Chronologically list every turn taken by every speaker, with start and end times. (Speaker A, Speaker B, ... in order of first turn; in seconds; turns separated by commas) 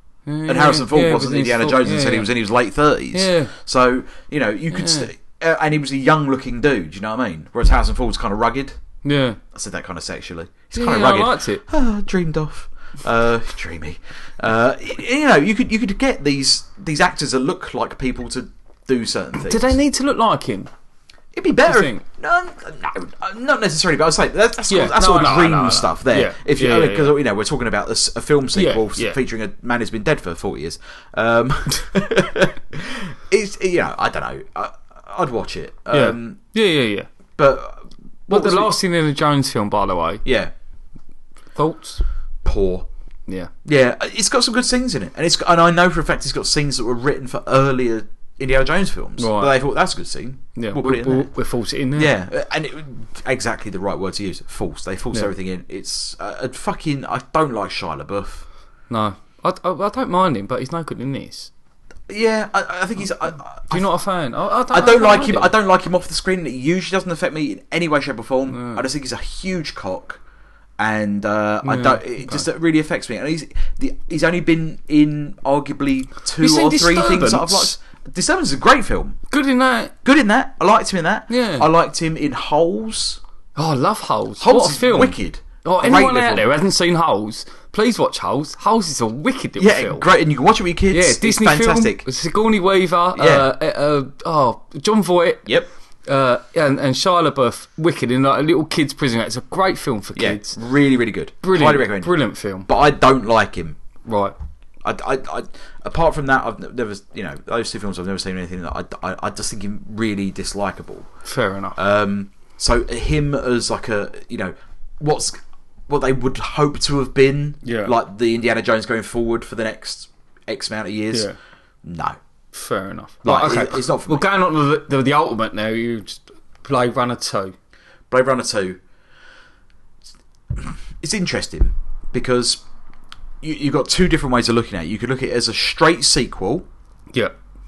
Speaker A: 0.3-2.3, Speaker B: 0.5-8.8, Speaker A: 3.1-3.5, Speaker A: 4.7-5.1, Speaker A: 9.0-9.4, Speaker B: 9.5-19.8, Speaker A: 10.7-11.6, Speaker A: 19.5-20.7, Speaker B: 21.3-36.4, Speaker A: 21.6-22.0, Speaker A: 24.7-27.2, Speaker A: 28.6-29.2, Speaker A: 35.9-37.1, Speaker B: 37.4-38.7, Speaker A: 38.3-40.2, Speaker B: 40.2-40.5, Speaker A: 41.5-42.0, Speaker B: 42.5-42.9, Speaker B: 43.6-51.3, Speaker A: 49.2-49.5, Speaker A: 50.6-52.1, Speaker B: 52.0-58.5, Speaker A: 58.9-61.5, Speaker B: 62.1-63.9, Speaker A: 63.7-65.5, Speaker B: 64.7-70.2, Speaker A: 68.5-68.8, Speaker B: 70.8-79.2, Speaker A: 71.6-72.5, Speaker A: 76.4-77.7, Speaker A: 79.3-79.9, Speaker B: 80.0-83.2, Speaker A: 81.3-81.7, Speaker A: 83.6-90.1, Speaker B: 84.4-86.5, Speaker B: 89.6-92.0, Speaker A: 90.9-95.5, Speaker B: 93.2-93.5, Speaker A: 96.1-100.6, Speaker B: 100.2-102.1, Speaker A: 101.4-102.7, Speaker B: 102.7-103.8, Speaker A: 104.0-104.3, Speaker B: 104.8-111.1, Speaker A: 111.2-111.8, Speaker B: 111.8-115.4, Speaker B: 115.9-121.3, Speaker A: 117.6-117.9, Speaker B: 121.8-122.2, Speaker A: 122.5-127.5, Speaker B: 123.2-124.3, Speaker B: 128.1-128.8, Speaker B: 130.6-132.6, Speaker B: 133.4-136.7